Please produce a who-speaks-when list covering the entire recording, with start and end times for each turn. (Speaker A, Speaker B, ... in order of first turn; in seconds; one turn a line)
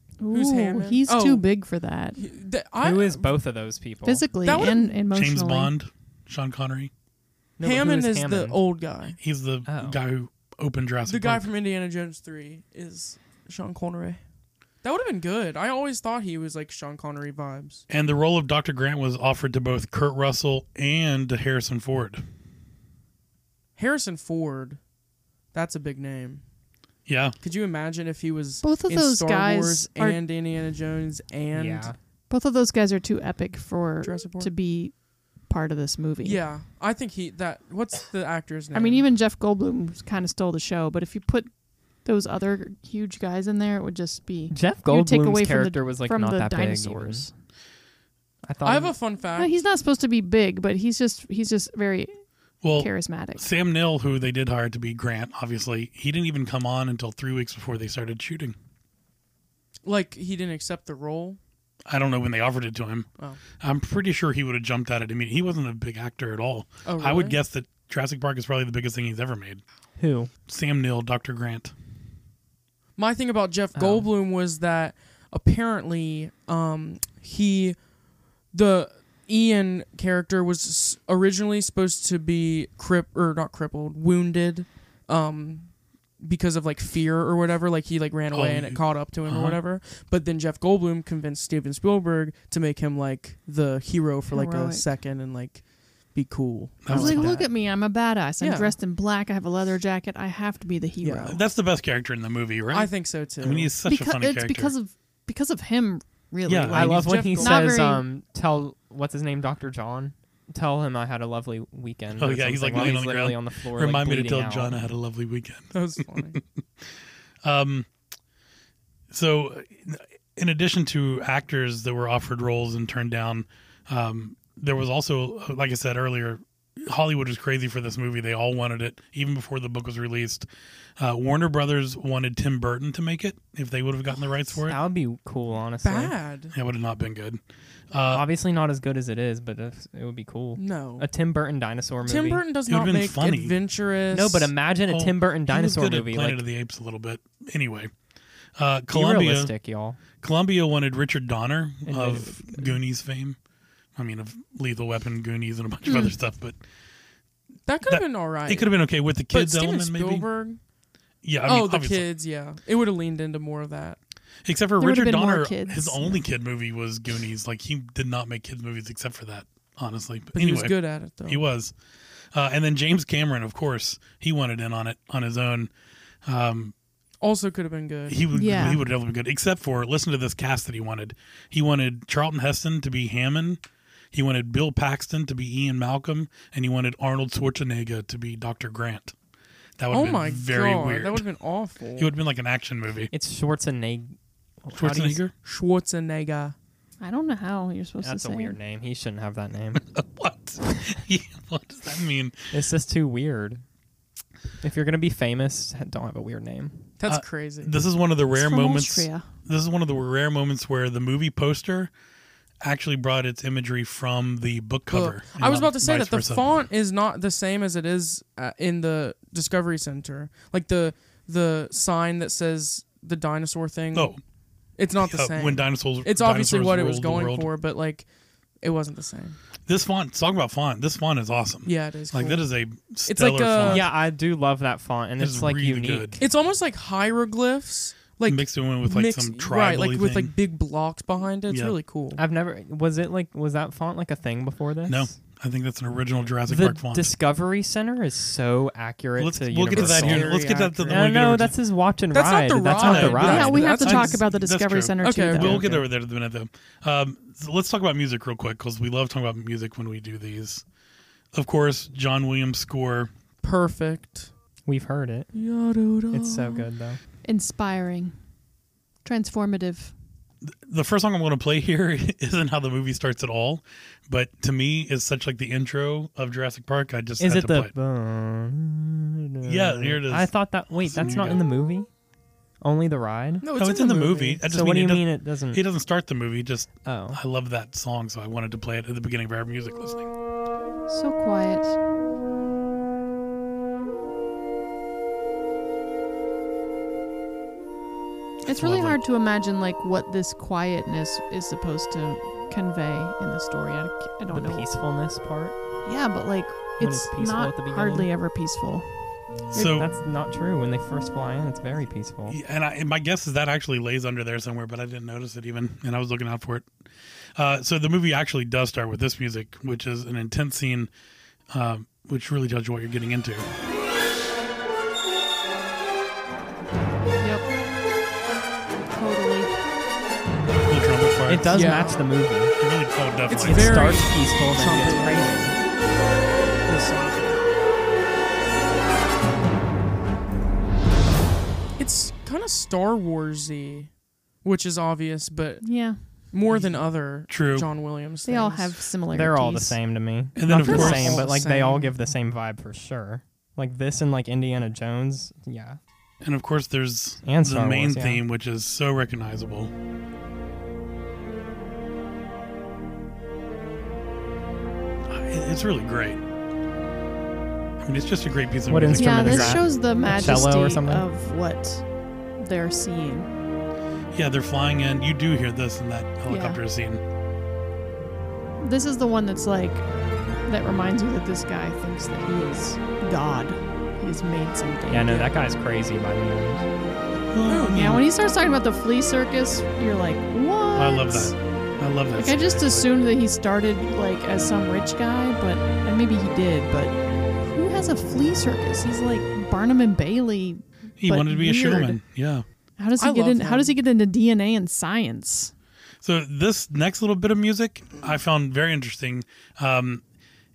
Speaker A: 0.2-2.2
Speaker B: 0.3-1.4
Speaker B: 2.2-3.4
Speaker C: 2.8-4.2
Speaker A: 4.0-5.7
Speaker B: 4.4-4.9
Speaker D: 5.1-6.9
Speaker C: 7.6-8.6
Speaker B: 7.6-9.2
Speaker D: 9.2-11.5
Speaker C: 9.7-10.0
Speaker B: 11.1-14.2
Speaker B: 14.8-17.8
Speaker D: 17.9-22.2
Speaker B: 23.8-24.8
Speaker B: 25.5-26.4
Speaker D: 27.1-27.3
Speaker B: 27.4-31.9
Speaker A: 28.6-30.2
Speaker C: 31.5-31.9
Speaker A: 32.3-34.9
Speaker B: 34.0-34.5
Speaker A: 35.5-36.4
Speaker B: 36.2-39.0
Speaker A: 38.7-41.5
Speaker A: 42.0-47.3
Speaker C: 44.5-47.3
Speaker C: 48.4-48.9
Speaker B: 48.6-49.5
Speaker A: 49.4-52.1
Speaker D: 52.6-58.5
Speaker A: 52.7-53.4
Speaker B: 59.8-61.4
Speaker D: 61.9-63.1
Speaker D: 63.6-69.6
Speaker B: 66.8-67.4
Speaker C: 70.0-70.3
Speaker D: 70.5-71.7
Speaker B: 73.0-77.8
Speaker C: 73.7-74.1
Speaker B: 78.5-97.3
Speaker D: 88.3-89.6
Speaker A: 94.3-94.8
Speaker D: 96.8-97.4
Speaker A: 96.9-101.4
Speaker C: 97.0-97.5
Speaker B: 98.4-98.7
Speaker B: 101.0-101.3
Speaker D: 101.2-104.7
Speaker B: 102.7-103.7
Speaker A: 103.8-108.0
Speaker D: 106.4-107.3
Speaker C: 106.7-114.8
Speaker B: 107.0-107.5
Speaker D: 112.2-116.4
Speaker B: 115.7-116.4
Speaker D: 117.4-117.9
Speaker D: 119.1-130.5
Speaker D: 131.0-134.8
Speaker C: 134.6-136.1
Speaker B: 135.8-136.5
Speaker D: 136.5-137.4
Speaker D: 137.9-138.2
Speaker C: 138.1-142.4
Speaker B: 140.6-141.1
Speaker B: 142.0-144.5
Speaker D: 142.7-143.6
Speaker C: 144.1-146.4
Speaker D: 144.9-147.9
Speaker D: 148.6-149.5
Speaker C: 148.9-150.0
Speaker D: 150.2-153.4
Speaker C: 151.8-152.8
Speaker D: 153.9-156.6
Speaker A: 155.8-156.1
Speaker B: 157.7-160.6
Speaker D: 157.8-160.3
Speaker D: 161.2-162.1
Speaker B: 161.4-164.0
Speaker D: 164.4-171.7
Speaker A: 164.8-166.2
Speaker B: 170.3-171.4
Speaker D: 172.3-175.7
Speaker D: 176.2-176.7
Speaker B: 177.2-178.2
Speaker D: 178.1-183.6
Speaker A: 178.3-178.8
Speaker D: 184.1-189.1
Speaker D: 189.8-191.2
Speaker B: 189.9-192.1
Speaker D: 192.0-193.1
Speaker C: 193.1-195.2
Speaker D: 194.7-195.3
Speaker B: 195.4-196.5
Speaker A: 197.0-198.6
Speaker C: 198.0-199.8
Speaker D: 199.7-202.4
Speaker C: 202.5-203.6
Speaker C: 204.6-206.9
Speaker B: 207.0-207.7
Speaker D: 207.1-211.9
Speaker A: 208.3-209.3
Speaker D: 212.6-216.6
Speaker B: 214.9-224.2
Speaker D: 223.9-224.2
Speaker B: 224.8-228.1
Speaker D: 225.0-227.5
Speaker B: 228.6-229.4
Speaker D: 229.7-233.9
Speaker B: 231.6-232.4
Speaker B: 233.1-233.9
Speaker C: 233.6-236.2
Speaker D: 235.2-236.2
Speaker B: 236.2-242.2
Speaker D: 238.2-240.3
Speaker D: 241.5-241.8
Speaker C: 242.2-245.2
Speaker D: 244.9-247.1
Speaker C: 246.5-253.7
Speaker D: 249.2-251.5
Speaker B: 249.7-251.1
Speaker B: 252.1-254.2
Speaker D: 252.8-260.6
Speaker A: 253.3-255.6
Speaker B: 255.0-255.6
Speaker D: 261.3-263.1
Speaker B: 263.4-264.3
Speaker C: 264.6-265.3
Speaker B: 265.3-266.6
Speaker C: 266.1-267.0
Speaker A: 267.2-268.1
Speaker A: 269.0-269.9
Speaker D: 270.4-277.7
Speaker C: 277.2-281.9
Speaker D: 279.4-281.4
Speaker C: 282.6-283.4
Speaker B: 283.4-284.4
Speaker D: 283.6-290.1
Speaker C: 284.4-285.6
Speaker C: 286.8-287.2
Speaker A: 290.9-291.8
Speaker D: 298.4-299.0
Speaker A: 298.4-304.7
Speaker C: 304.3-305.6
Speaker A: 305.8-308.9
Speaker C: 306.8-308.1
Speaker D: 309.5-309.9
Speaker C: 309.6-312.4
Speaker D: 312.3-316.7
Speaker D: 317.4-320.9
Speaker D: 321.5-323.5
Speaker A: 327.2-327.5
Speaker A: 328.9-329.5
Speaker D: 330.6-331.6
Speaker C: 331.3-332.5
Speaker B: 331.5-332.0
Speaker D: 332.6-333.9
Speaker B: 333.3-335.5
Speaker C: 333.4-335.6
Speaker B: 336.6-337.4
Speaker B: 341.8-348.8
Speaker A: 345.6-346.2
Speaker D: 346.5-347.7
Speaker A: 348.2-349.8
Speaker C: 349.1-355.8
Speaker D: 350.4-351.2
Speaker B: 350.5-351.9
Speaker D: 356.2-359.7
Speaker C: 357.2-358.2
Speaker D: 365.1-366.2
Speaker D: 367.8-369.6
Speaker C: 368.7-371.1
Speaker A: 368.9-371.8
Speaker A: 372.4-373.3
Speaker D: 374.1-377.0
Speaker A: 376.3-376.6
Speaker A: 378.6-379.8
Speaker A: 380.4-385.3
Speaker C: 384.9-386.6
Speaker D: 387.3-388.1
Speaker B: 387.5-387.8
Speaker A: 387.6-391.3
Speaker D: 390.7-392.9
Speaker A: 392.2-402.0
Speaker D: 401.0-402.4
Speaker A: 402.8-405.5
Speaker B: 403.0-403.8
Speaker D: 406.0-410.0